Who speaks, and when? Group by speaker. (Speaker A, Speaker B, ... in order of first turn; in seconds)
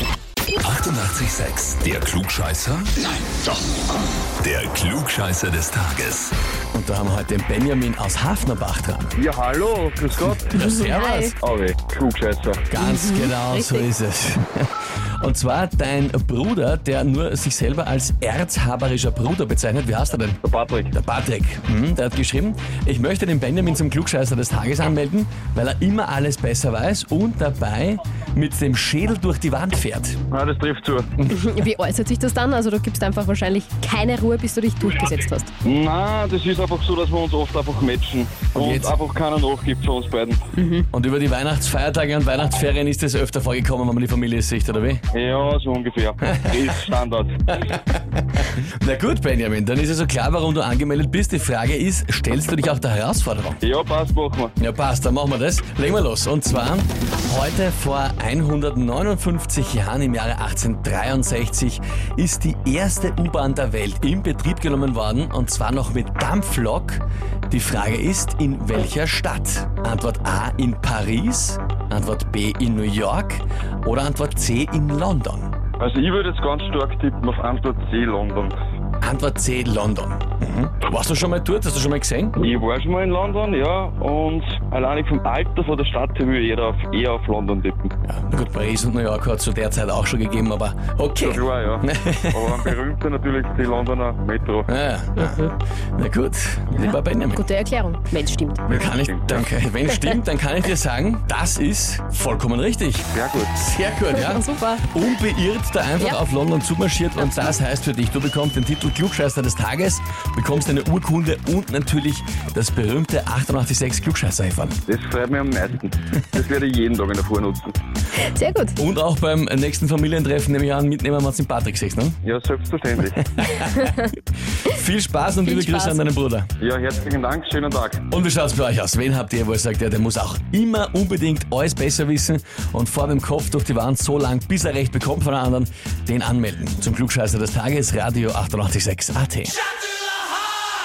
Speaker A: 0.6-3.6, 4.4-6.3
Speaker B: 6.7-9.1, 10.2-11.3, 12.7-14.7, 15.2-20.4, 20.9-30.2, 31.2-31.5, 38.5-39.0, 40.9-45.0, 46.2-46.8, 47.5-53.6, 54.6-75.5, 79.0-82.4, 88.1-92.7, 94.7-97.5, 98.7-114.8, 118.8-122.2, 123.4-124.1, 124.7-126.5, 128.1-139.5
Speaker C: 9.2-10.5, 11.4-12.7, 20.4-20.9, 30.3-31.1, 35.6-40.5, 45.1-47.3, 53.6-54.5, 75.8-78.5, 82.4-87.9, 91.2-94.7, 98.7-99.5, 103.1-103.5, 114.9-117.7, 122.2-123.2, 126.6-128.0
Speaker D: 10.6-11.3, 12.8-13.9, 31.3-35.5, 40.5-40.9, 95.2-95.5, 96.8-98.6, 104.1-104.9, 118.2-118.8, 125.5-126.0